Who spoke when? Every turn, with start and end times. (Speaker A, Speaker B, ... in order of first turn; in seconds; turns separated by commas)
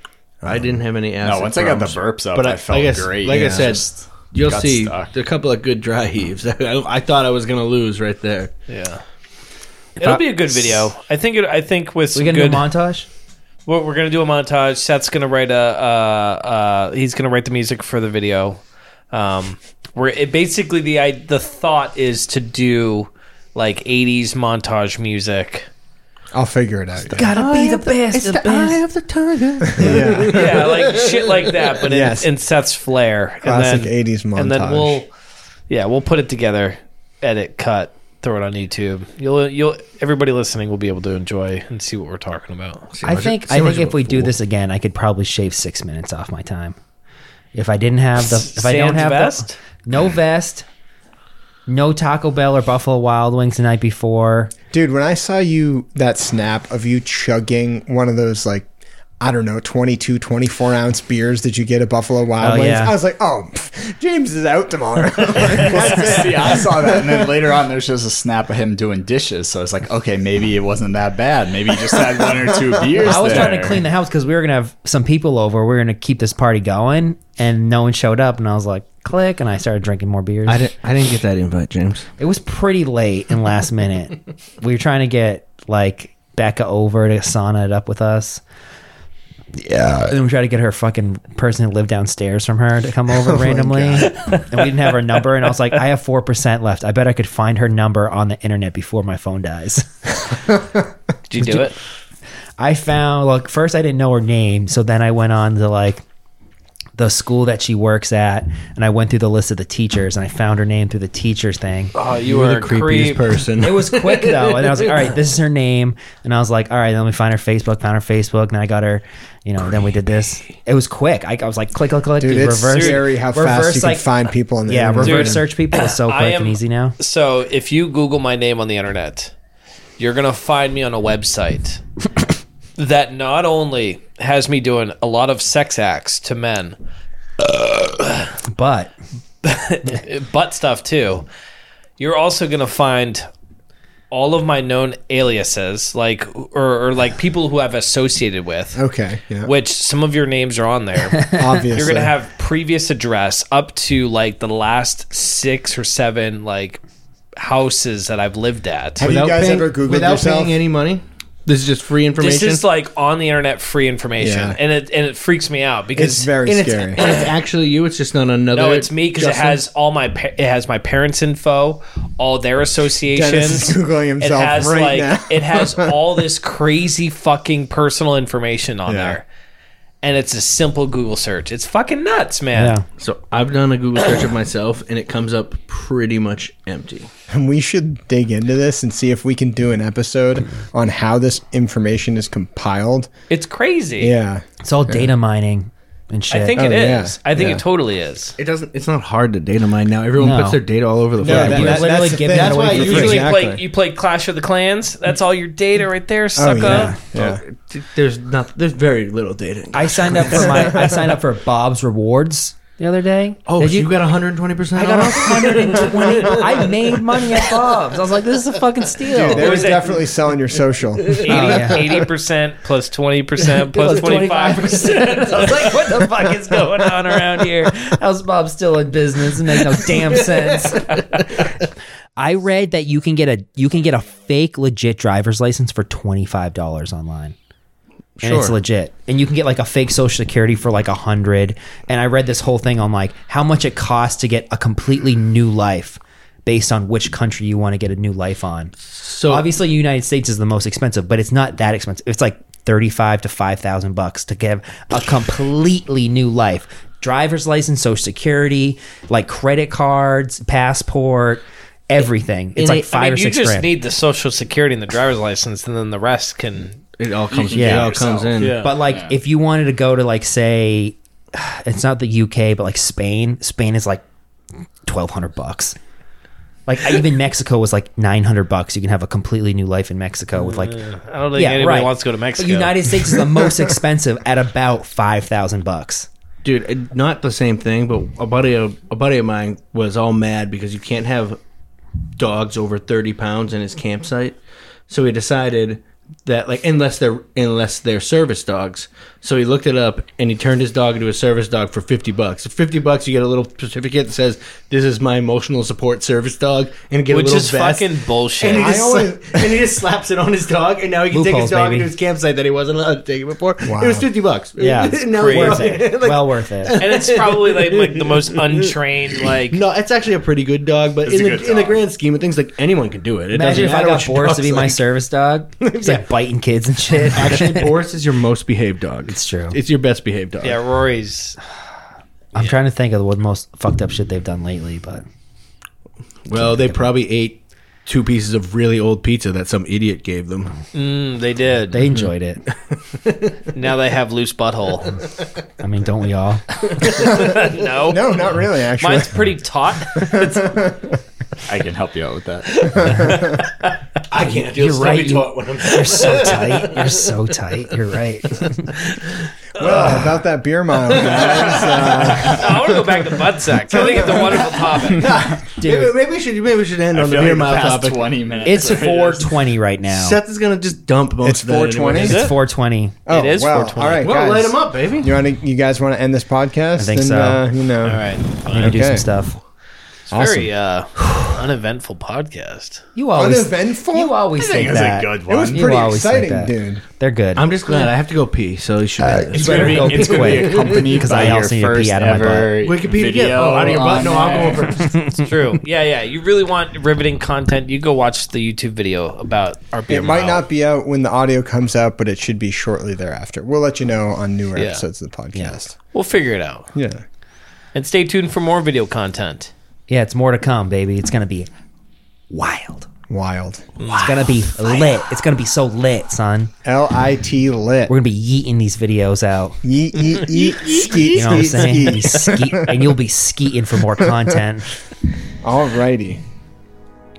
Speaker A: 0.4-8.5, Speaker B: 1.2-5.1, Speaker C: 8.7-9.0, Speaker C: 10.0-12.7, Speaker D: 12.1-13.1, Speaker C: 13.7-18.6, Speaker C: 19.1-25.7, Speaker E: 26.3-27.3, Speaker D: 27.1-28.8, Speaker A: 27.2-31.5, Speaker E: 29.7-30.6, Speaker C: 30.2-35.1, Speaker E: 31.9-32.3, Speaker E: 33.4-35.0, Speaker C: 35.7-42.9, Speaker A: 42.9-44.3, Speaker D: 43.0-46.8, Speaker D: 47.5-50.6, Speaker C: 48.2-49.5, Speaker D: 51.7-54.5, Speaker E: 54.7-58.7, Speaker E: 59.2-67.3, Speaker D: 62.4-62.9, Speaker B: 65.3-73.8, Speaker D: 73.0-80.6, Speaker E: 73.1-73.5, Speaker A: 80.5-82.1, Speaker D: 82.2-88.4, Speaker D: 89.6-100.2, Speaker E: 93.3-94.1, Speaker C: 94.1-94.6, Speaker C: 101.3-101.8, Speaker D: 101.4-101.7, Speaker D: 102.6-106.0, Speaker D: 107.0-111.9, Speaker C: 111.9-113.4, Speaker A: 112.2-114.9, Speaker D: 113.6-124.1, Speaker E: 122.2-125.4, Speaker C: 122.7-123.0, Speaker D: 124.7-127.0, Speaker C: 125.0-129.3, Speaker C: 130.0-131.8, Speaker C: 132.8-136.8, Speaker C: 137.4-138.3, Speaker D: 138.4-138.9, Speaker C: 139.4-141.2, Speaker C: 142.0-143.3, Speaker C: 144.1-148.8, Speaker E: 148.8-149.5, Speaker C: 149.4-156.8, Speaker E: 151.3-152.1, Speaker C: 157.4-159.1, Speaker E: 159.0-160.6, Speaker A: 159.0-162.6, Speaker C: 162.2-166.3, Speaker E: 164.2-164.6, Speaker E: 165.9-167.0, Speaker A: 166.4-169.6, Speaker C: 167.0-167.2, Speaker C: 168.5-179.2, Speaker E: 173.1-176.0, Speaker E: 178.9-179.2, Speaker C: 180.0-182.8, Speaker D: 182.5-182.8, Speaker A: 183.0-187.1, Speaker E: 187.3-193.1, Speaker C: 193.3-194.1, Speaker E: 194.0-195.1, Speaker D: 194.6-196.6, Speaker C: 196.3-198.3, Speaker E: 196.6-197.6, Speaker A: 198.4-203.2, Speaker D: 200.2-200.6, Speaker E: 201.2-203.6, Speaker D: 201.2-203.2, Speaker C: 202.7-206.9, Speaker E: 206.3-207.4, Speaker D: 206.6-207.0, Speaker A: 207.1-210.7, Speaker D: 209.7-214.0, Speaker E: 210.5-211.0, Speaker A: 213.5-217.5, Speaker D: 214.7-219.7, Speaker E: 219.1-221.9, Speaker C: 219.2-219.9, Speaker A: 221.0-221.5, Speaker C: 221.2-227.7, Speaker D: 221.3-221.8, Speaker D: 223.7-231.0, Speaker A: 229.7-231.6, Speaker D: 232.2-237.3, Speaker A: 238.2-238.6, Speaker D: 238.2-248.7, Speaker A: 248.9-249.5, Speaker D: 249.3-263.7, Speaker A: 262.6-262.9, Speaker C: 262.7-266.8, Speaker A: 267.0-268.6, Speaker B: 267.3-269.1, Speaker D: 267.5-268.0, Speaker C: 268.4-268.6, Speaker D: 268.6-274.0, Speaker D: 274.8-275.8, Speaker D: 276.7-286.1, Speaker C: 280.4-282.9, Speaker A: 286.4-291.4, Speaker A: 292.2-318.4, Speaker C: 307.1-308.8, Speaker E: 308.5-309.6, Speaker D: 311.1-311.9, Speaker E: 313.6-314.1, Speaker D: 314.6-316.8, Speaker C: 315.1-315.7, Speaker C: 316.8-319.6, Speaker A: 319.3-324.8, Speaker B: 321.0-321.8, Speaker D: 323.3-327.7, Speaker A: 325.6-326.0, Speaker A: 326.9-330.6, Speaker D: 329.1-329.6, Speaker C: 330.4-331.4, Speaker D: 332.3-335.0, Speaker A: 336.2-340.6, Speaker C: 340.7-341.9, Speaker D: 341.7-342.4, Speaker A: 342.7-343.5, Speaker C: 343.5-345.0, Speaker A: 345.0-345.2, Speaker D: 345.6-346.4, Speaker A: 346.7-347.3, Speaker C: 346.7-350.7, Speaker E: 347.0-349.4, Speaker E: 349.9-351.0, Speaker B: 351.4-353.1, Speaker C: 352.5-353.8, Speaker E: 352.6-353.4, Speaker A: 354.1-357.1, Speaker D: 354.2-358.8, Speaker E: 359.6-363.0, Speaker A: 360.9-361.8, Speaker B: 361.0-362.4, Speaker C: 362.1-365.2, Speaker E: 363.7-364.4, Speaker A: 363.7-369.0, Speaker B: 364.7-365.4, Speaker D: 365.6-365.9, Speaker B: 366.9-369.3, Speaker D: 368.4-370.2, Speaker A: 369.9-372.3, Speaker E: 371.2-372.2, Speaker D: 372.0-373.0, Speaker C: 372.0-372.3, Speaker E: 373.1-379.1, Speaker C: 373.1-374.1, Speaker A: 374.0-375.1, Speaker D: 376.8-377.4, Speaker C: 377.8-378.7, Speaker D: 378.5-379.4, Speaker C: 380.1-382.8, Speaker E: 380.1-380.5, Speaker D: 382.9-387.7, Speaker E: 383.1-384.2, Speaker B: 384.3-385.8, Speaker E: 385.3-386.8, Speaker A: 387.3-390.9, Speaker B: 389.0-394.8, Speaker D: 389.3-392.5, Speaker A: 392.6-395.3, Speaker D: 394.8-395.1, Speaker C: 395.1-400.4, Speaker E: 399.9-405.8, Speaker C: 404.5-404.8, Speaker C: 405.9-406.7, Speaker E: 406.7-407.0, Speaker C: 407.7-409.5, Speaker D: 409.9-411.5, Speaker D: 412.3-412.9, Speaker E: 413.1-413.7, Speaker C: 413.8-414.1, Speaker D: 413.9-416.5, Speaker E: 416.6-417.9, Speaker D: 417.9-419.6, Speaker E: 419.6-422.9, Speaker C: 420.4-421.1, Speaker D: 421.1-424.7, Speaker E: 425.4-426.2